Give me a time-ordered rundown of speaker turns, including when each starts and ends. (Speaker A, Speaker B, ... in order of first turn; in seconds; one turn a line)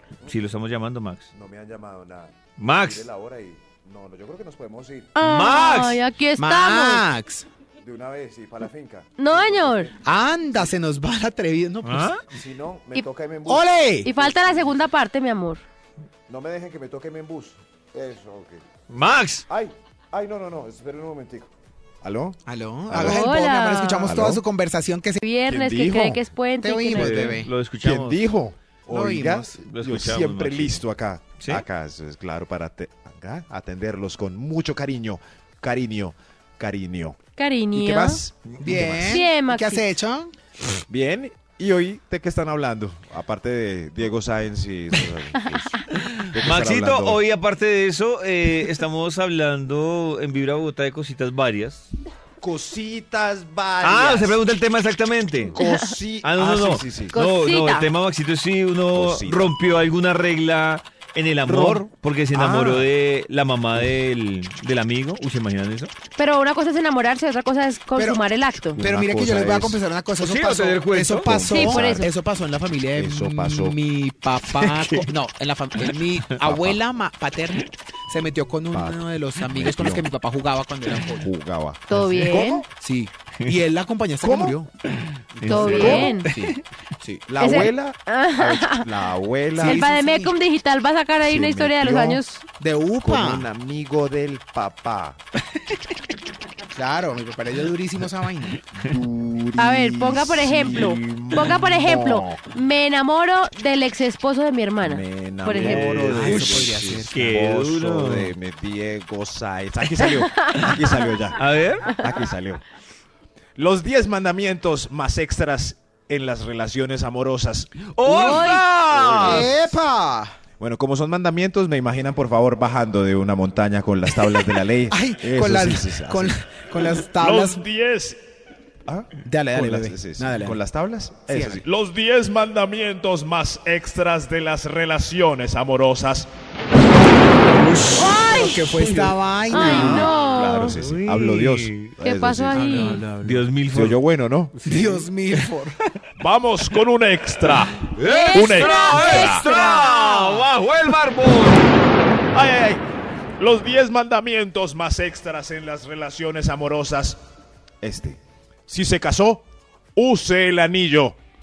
Speaker A: 0.2-1.3
Speaker B: 1.3-5.1
Speaker A: 2.6-3.0
Speaker C: 5.2-7.1
Speaker A: 5.2-6.0
Speaker D: 6.4-7.5
Speaker B: 7.8-9.9
Speaker C: 9.2-9.9
Speaker D: 10.0-12.1
Speaker A: 11.8-12.2
Speaker B: 12.3-14.8
Speaker D: 13.5-14.1
Speaker C: 14.0-15.6
Speaker B: 16.3-18.6
Speaker A: 18.9-19.5
Speaker B: 19.5-21.5
Speaker B: 22.0-22.4
Speaker D: 22.4-25.2
Speaker B: 22.9-23.2
Speaker C: 23.0-24.1
Speaker B: 24.1-24.4
Speaker C: 25.2-27.2
Speaker B: 25.5-26.2
Speaker D: 26.6-27.5
Speaker A: 26.9-28.3
Speaker B: 27.8-37.2
Speaker D: 28.9-29.6
Speaker A: 29.6-30.8
Speaker A: 31.4-31.6
Speaker C: 37.4-38.2
Speaker B: 37.7-39.2
Speaker D: 38.6-40.3
Speaker C: 39.1-39.9
Speaker B: 40.9-47.2
Speaker A: 46.0-51.9
Speaker B: 52.4-54.4
Speaker A: 53.8-55.6
Speaker B: 55.5-57.2
Speaker C: 55.6-55.8
Speaker A: 56.2-65.9
Speaker C: 57.1-57.9
Speaker B: 58.9-59.5
Speaker B: 61.5-62.9
Speaker C: 66.2-68.8
Speaker D: 68.0-68.3
Speaker B: 68.8-69.8
Speaker D: 68.8-81.3
Speaker A: 70.2-71.3
Speaker B: 71.2-72.1
Speaker C: 71.5-72.1
Speaker B: 73.0-73.8
Speaker A: 74.6-75.1
Speaker B: 76.4-76.8
Speaker B: 78.7-80.0
Speaker B: 81.2-82.7
Speaker C: 81.9-82.7
Speaker D: 82.7-84.7
Speaker B: 84.2-84.6
Speaker A: 84.9-86.6
Speaker D: 85.4-87.6
Speaker B: 85.4-86.2
Speaker C: 85.4-86.3
Speaker B: 87.3-89.8
Speaker C: 87.4-88.9
Speaker D: 89.5-90.3
Speaker C: 89.6-92.5
Speaker B: 91.2-92.2
Speaker D: 92.6-93.5
Speaker B: 93.0-95.2
Speaker D: 96.7-98.6
Speaker B: 98.8-102.4
Speaker C: 99.6-105.8
Speaker B: 104.8-112.6
Speaker A: 105.6-108.3
Speaker D: 105.8-107.2
Speaker A: 111.4-112.0
Speaker B: 113.6-119.5
Speaker A: 117.9-119.5
Speaker D: 118.1-118.5
Speaker C: 118.1-118.6
Speaker D: 119.2-120.4
Speaker B: 120.6-126.4
Speaker D: 124.9-127.6
Speaker E: 127.2-128.2
Speaker B: 128.9-131.7
Speaker D: 129.2-130.6
Speaker D: 131.3-131.6
Speaker E: 131.7-136.3
Speaker A: 137.4-141.9
Speaker D: 137.9-140.1
Speaker C: 138.0-138.6
Speaker C: 139.5-140.8
Speaker B: 139.6-142.9
Speaker C: 142.0-143.0
Speaker D: 142.5-143.5
Speaker A: 143.2-144.0
Speaker B: 143.7-144.5
Speaker A: 144.5-145.1
Speaker D: 144.6-145.8
Speaker E: 146.2-149.7
Speaker A: 147.8-151.8
Speaker C: 148.0-149.9
Speaker D: 149.5-150.1
Speaker E: 152.3-152.8
Speaker E: 153.4-157.2
Speaker B: 157.8-159.4
Speaker E: 160.0-160.7
Speaker B: 160.4-161.1